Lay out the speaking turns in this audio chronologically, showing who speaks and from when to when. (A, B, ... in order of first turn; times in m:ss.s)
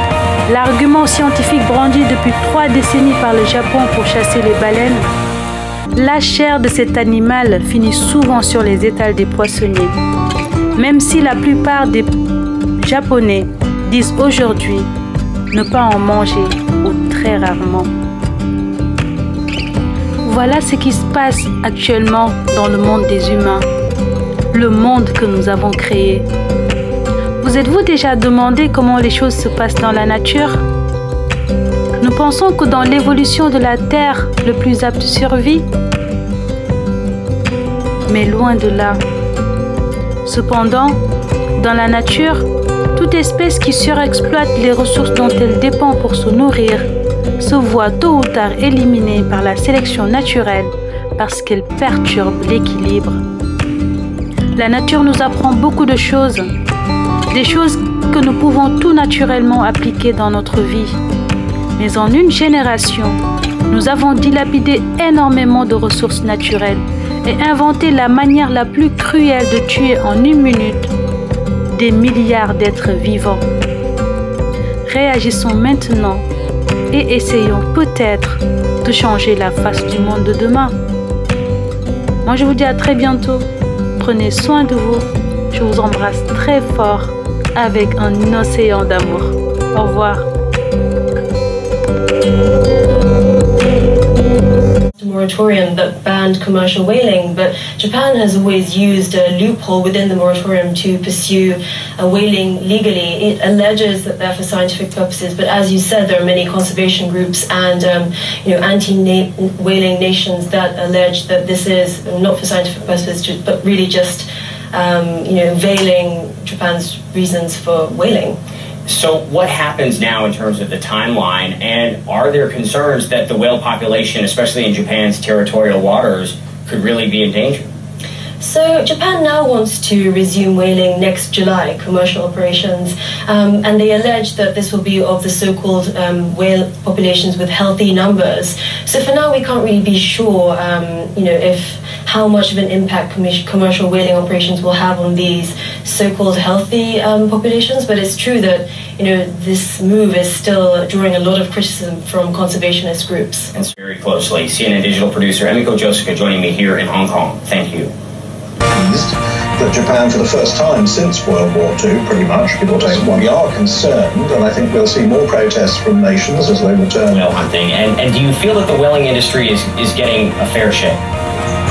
0:00.5-0:05.1 A
0:05.9-0:09.9 A
0:10.8-0:12.1 A
0:12.8-0:14.9 A
0:15.5-0:17.9 A
0:20.2-0:23.7 A
0:24.5-0:26.3 A
0:27.4-0:30.6 A
0:32.0-0:35.7 A
0:38.1-0:39.0 A
0:40.2-0:41.0 A
0:41.6-0:53.2 A
0:54.6-0:56.5 A
0:57.3-1:01.0 A
1:01.8-1:10.9 A
1:11.7-1:13.5 A
1:14.8-1:16.2 A
1:16.9-1:20.7 A
1:22.2-1:30.2 A
1:35.0-1:58.4 B
1:58.8-2:07.7 C
2:08.4-2:33.5 B
2:33.5-2:37.9 C
2:38.7-2:47.2 D
2:47.1-2:51.0 C